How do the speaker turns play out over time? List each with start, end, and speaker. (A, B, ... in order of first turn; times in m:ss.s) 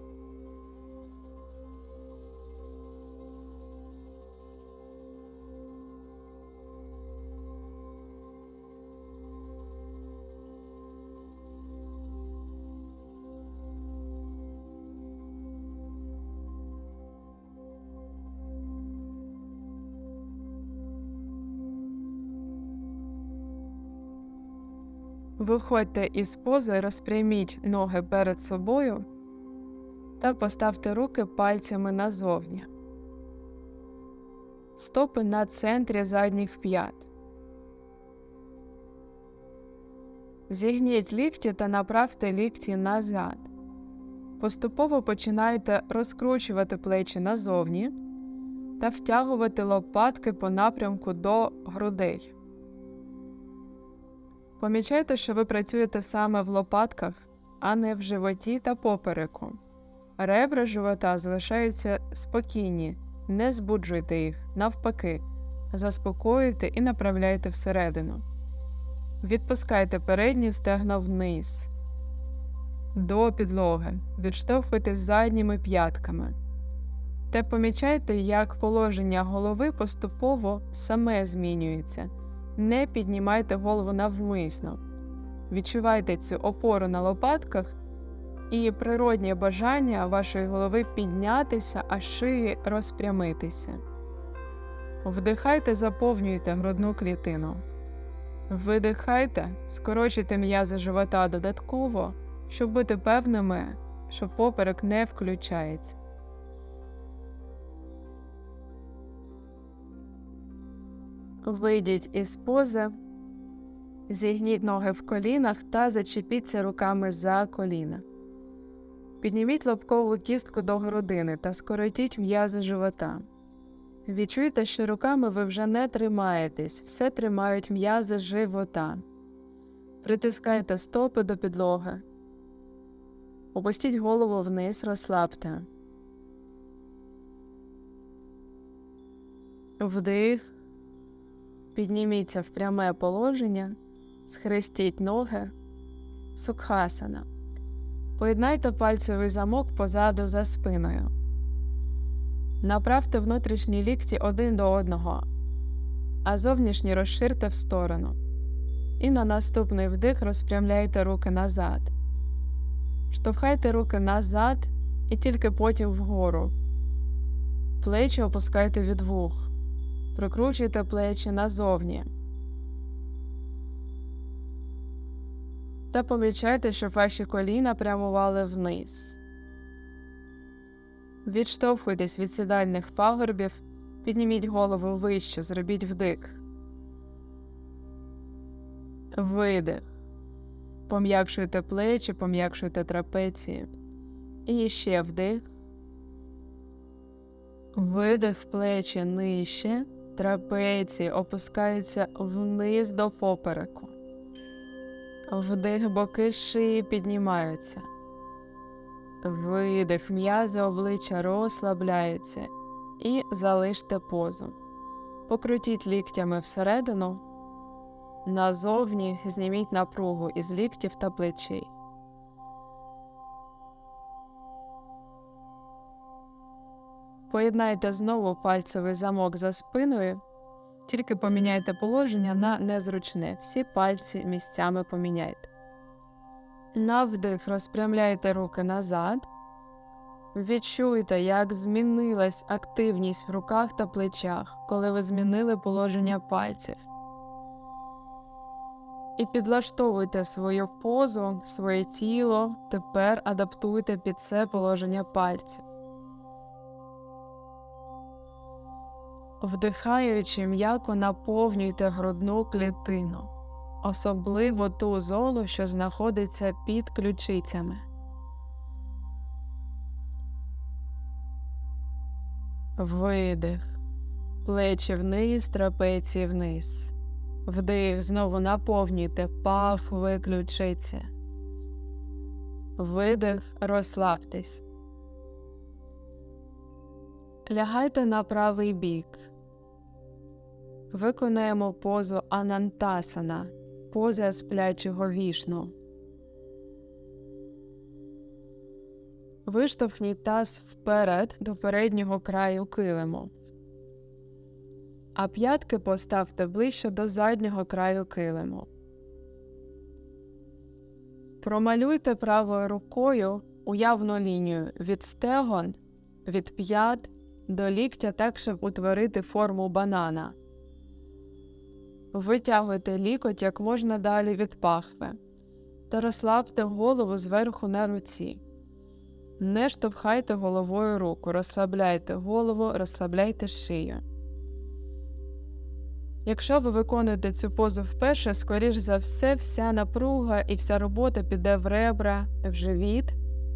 0:25.4-0:29.0 A
0:30.2-0:32.7 A
0:34.8-0:37.1 A
0:40.5-0:43.5 A
0:44.4-0:47.9 A
0:48.8-0:52.3 A
0:54.6-0:59.6 A
1:00.2-1:08.2 A
1:09.2-1:11.7 A
1:12.9-1:16.4 A
1:17.3-1:24.8 A
1:25.5-1:27.8 A
1:28.5-1:33.8 A
1:35.0-1:37.6 A
1:38.5-1:46.0 A
1:51.4-1:53.0 A
1:54.1-1:58.0 A
1:59.2-2:03.2 A
2:04.0-2:09.0 A
2:10.0-2:12.0 A
2:13.5-2:15.7 A
2:19.8-2:20.5 A
2:21.7-2:25.5 A
2:26.3-2:27.3 A
2:28.2-2:31.1 A
2:32.6-2:35.2 A
2:36.2-2:38.2 A
2:39.0-2:41.9 A
2:43.1-2:46.5 A
2:47.8-2:49.5 A
2:50.1-2:52.1 A
2:55.9-2:59.2 A
3:01.2-3:06.4 A
3:09.1-3:09.9 A
3:10.9-3:13.7 A
3:14.4-3:15.5 A
3:17.7-3:23.9 A
3:25.3-3:27.9 A
3:29.2-3:34.6 A
3:35.3-3:37.2 A
3:38.2-3:41.7 A
3:47.3-3:50.2 A
3:50.8-3:55.5 A
3:56.7-3:59.3 A
4:00.3-4:06.9 A
4:09.2-4:15.6 A
4:19.4-4:23.3 A
4:23.8-4:27.8 A
4:32.8-4:33.8 A
4:34.4-4:36.9 A
4:37.4-4:41.1 A
4:42.8-4:44.6 A
4:47.4-4:49.3 A
4:50.9-4:55.7 A
4:59.4-5:03.3 A
5:05.2-5:08.7 A
5:11.4-5:20.4 A
5:22.1-5:25.2 A
5:25.9-5:28.4 A
5:29.4-5:34.0 A
5:36.2-5:43.2 A